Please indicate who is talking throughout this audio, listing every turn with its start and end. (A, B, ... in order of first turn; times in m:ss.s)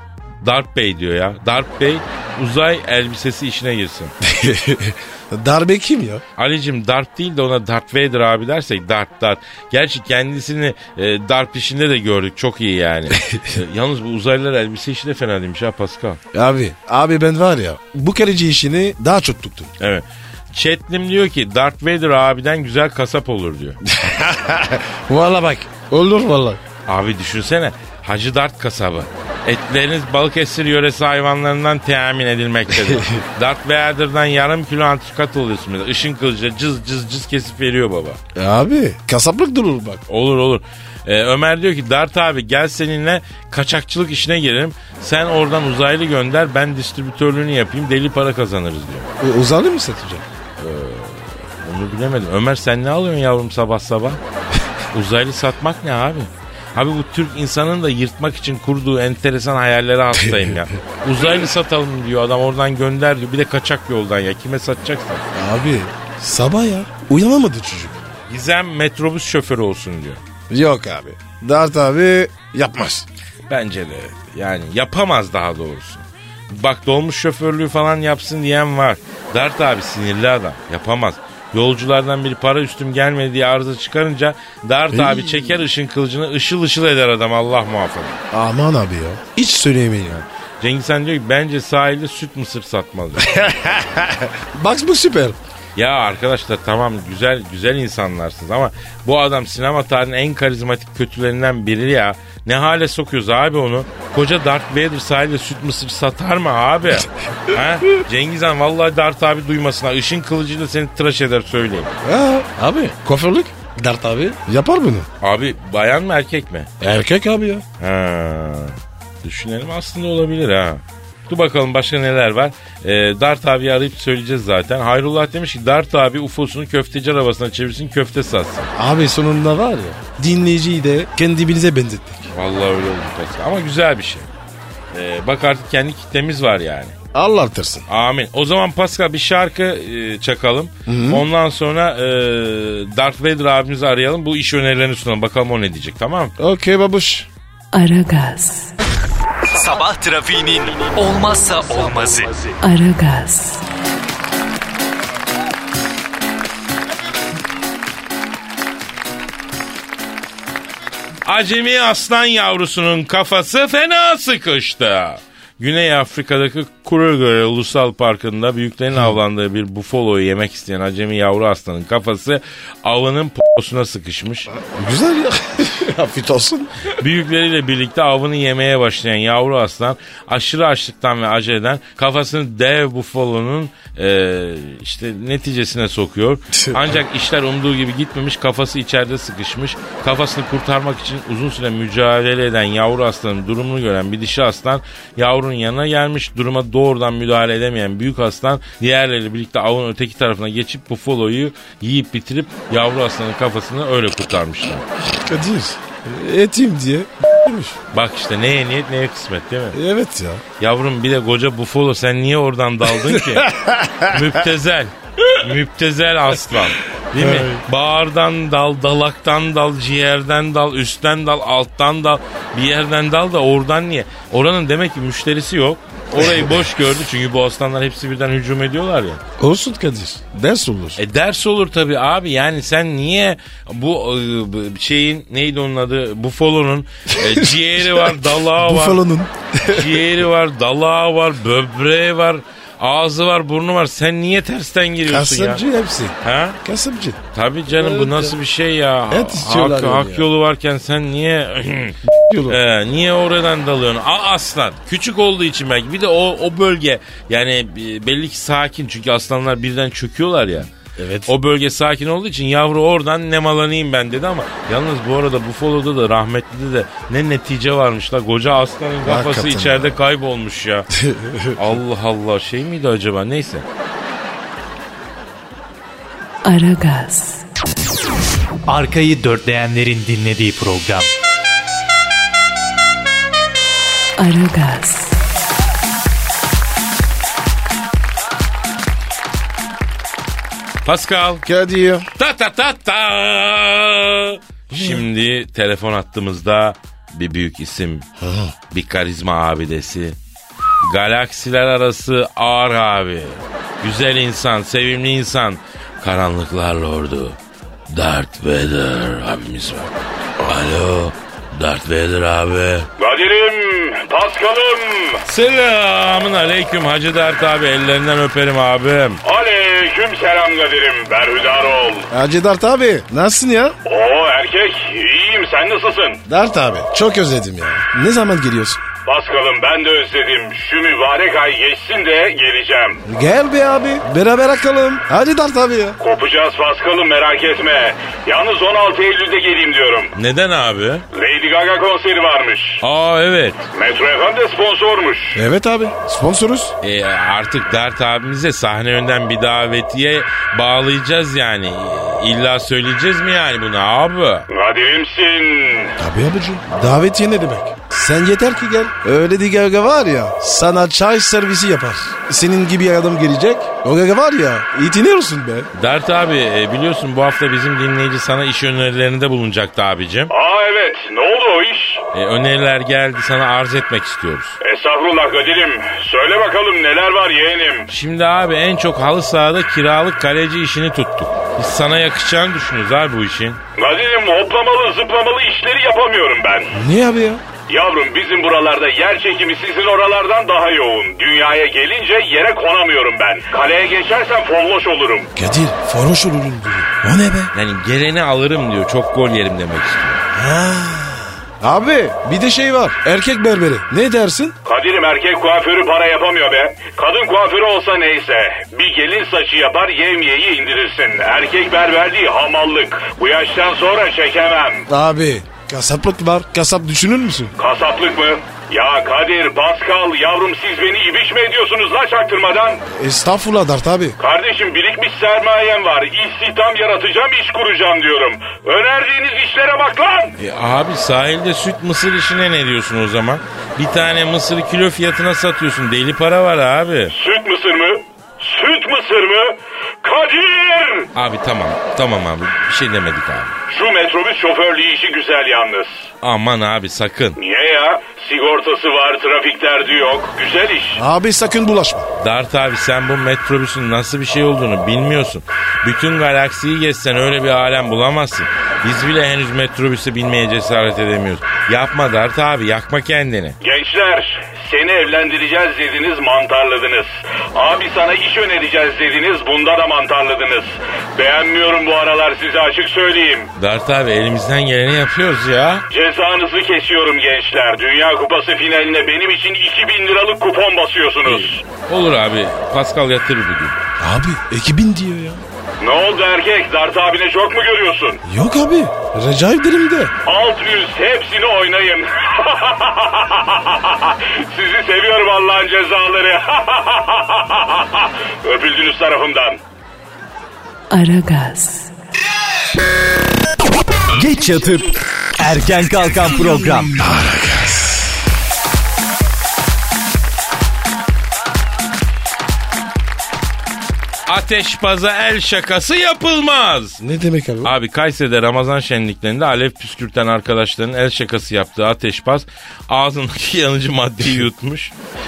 0:00.4-0:04.1 A
0:04.2-0:06.2 B
0:06.4-0:16.2 A
0:13.2-0:13.4 B
0:16.3-0:19.7 B
0:19.8-0:23.8 A
0:23.8-0:26.6 B
0:26.9-0:38.2 A
0:32.7-0:33.2 B
0:38.3-0:40.0 B
0:40.1-0:49.1 A
0:49.2-0:50.2 B
0:50.6-0:54.2 A
0:54.9-1:05.2 A
1:00.1-1:00.8 B
1:05.3-1:08.0 B
1:08.3-1:10.2 A
1:10.5-1:13.1 B
1:13.5-1:28.2 A
1:24.9-1:25.6 B
1:28.3-1:30.2 B
1:30.1-1:33.3 A
1:33.2-1:35.4 B
1:35.8-1:51.9 A
1:52.0-1:55.1 B
1:55.2-1:56.7 A
1:56.8-1:57.6 B
1:57.8-2:08.7 A
2:08.7-2:12.3 B
2:12.3-2:14.3 A
2:14.9-2:16.9 A
2:17.1-2:17.8 B
2:17.9-2:26.3 A
2:20.8-2:21.2 B
2:26.4-2:27.3 B
2:27.7-2:28.7 C
2:29.5-2:32.5 D
2:32.6-2:33.6 C
2:41.2-2:54.5 A
2:54.5-2:56.7 B
2:57.0-3:24.8 A
3:06.5-3:07.0 B
3:25.2-3:27.8 B
3:27.9-3:29.8 A
3:29.7-3:30.4 B
3:30.6-3:33.5 A
3:32.9-3:34.4 B
3:34.0-3:49.2 A
3:37.1-3:37.6 B
3:46.2-3:46.6 B
3:49.4-3:51.0 B
3:51.0-3:59.0 A
3:57.1-4:00.0 B
3:59.6-4:05.6 A
4:05.1-4:07.2 B
4:06.2-4:06.6 A
4:07.3-4:20.7 A
4:07.7-4:08.3 B
4:09.1-4:10.3 B
4:12.1-4:12.6 B
4:21.0-4:21.3 B
4:21.3-4:30.9 A
4:29.0-4:30.0 B
4:30.9-4:31.6 B
4:31.5-4:33.6 A
4:36.4-4:37.4 C
4:38.7-4:41.1 D
4:44.2-4:45.2 C
4:50.8-4:51.4 A
4:51.4-4:52.1 B
4:52.2-4:58.0 A
4:54.7-4:55.1 B
4:58.2-4:58.5 B
4:58.7-5:00.2 A
5:00.8-5:07.4 A
5:07.9-5:12.9 A
5:13.0-5:15.2 E
5:15.2-5:19.2 A
5:19.2-5:22.1 E
5:22.1-5:23.8 B
5:23.8-5:26.2 E
5:26.3-5:28.8 B
5:29.0-5:33.0 E
5:33.0-5:36.0 B
5:36.0-5:40.1 E
5:40.2-5:41.0 A
5:41.1-5:42.8 E
5:42.8-5:43.6 A
5:43.7-5:45.4 E
5:45.3-5:46.7 B
5:46.8-5:54.5 A
5:54.5-5:56.0 E
5:56.0-6:05.7 B
6:05.7-6:10.3 A
6:10.3-6:12.0 E
6:12.1-6:14.6 A
6:14.6-6:17.9 E
6:17.9-6:23.6 A
6:23.8-6:26.8 E
6:26.7-6:27.4 B
6:27.7-6:35.3 E
6:35.4-6:37.5 B
6:37.5-6:40.2 A
6:40.3-6:44.5 B
6:44.6-6:54.9 E
6:54.9-6:57.5 B
6:57.6-7:02.8 E
7:02.9-7:04.2 B
7:04.2-7:10.4 E
7:10.4-7:17.1 A
7:17.1-7:21.1 E
7:21.1-7:23.6 A
7:23.7-7:26.1 E
7:26.2-7:27.4 A
7:27.4-7:31.0 E
7:31.0-7:32.1 B
7:32.2-7:43.6 A
7:43.6-7:53.5 E
7:53.6-7:55.8 A
7:55.9-8:01.6 E
8:01.3-8:03.8 A
8:04.0-8:05.4 B
8:05.8-8:08.2 E
8:08.2-8:10.1 B
8:10.2-8:19.6 E
8:20.9-8:21.9 C
8:24.1-8:26.9 D
8:27.0-8:28.1 B
8:34.3-8:37.0 A
8:37.0-8:37.7 B
8:37.6-8:44.9 A